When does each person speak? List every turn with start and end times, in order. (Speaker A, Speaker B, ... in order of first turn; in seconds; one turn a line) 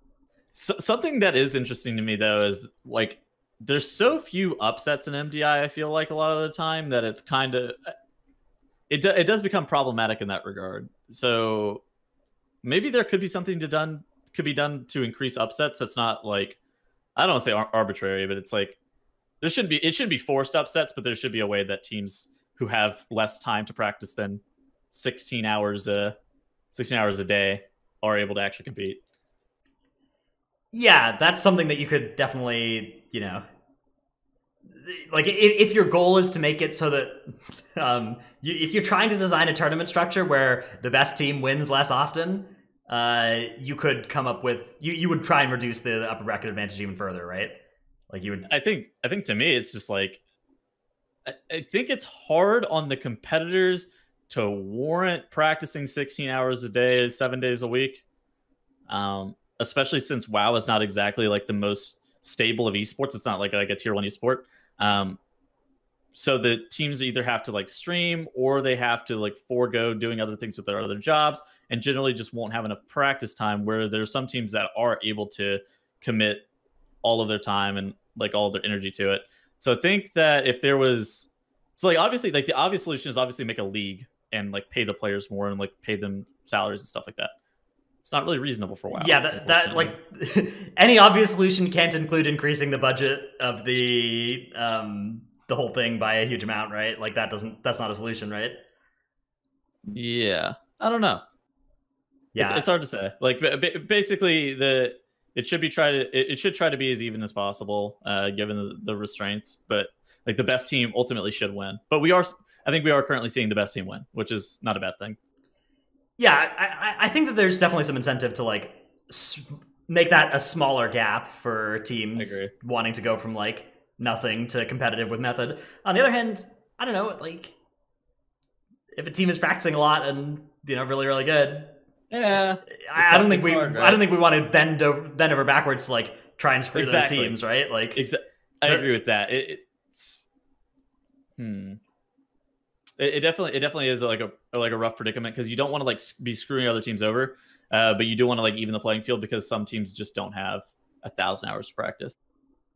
Speaker A: 0.5-7.9
Speaker A: 8.9-11.8
Speaker A: 12.6-16.6
Speaker A: 17.1-18.8
Speaker A: 19.4-26.1
Speaker A: 26.7-29.0
Speaker B: 30.7-33.4
Speaker B: 34.8-47.6
Speaker B: 48.1-48.5
Speaker A: 48.5-50.2
Speaker A: 51.2-58.0
Speaker A: 58.9-65.2
Speaker A: 66.1-76.5
Speaker A: 77.0-87.3
Speaker A: 88.0-89.9
Speaker B: 88.9-98.6
Speaker A: 99.9-101.2
Speaker B: 102.3-102.7
Speaker A: 102.4-115.2
Speaker B: 116.2-127.5
Speaker A: 122.2-122.5
Speaker B: 128.9-131.7
Speaker A: 132.1-134.0
Speaker B: 132.7-138.0
Speaker A: 136.7-137.4
Speaker A: 137.9-140.2
Speaker A: 141.4-141.8
Speaker A: 143.0-152.1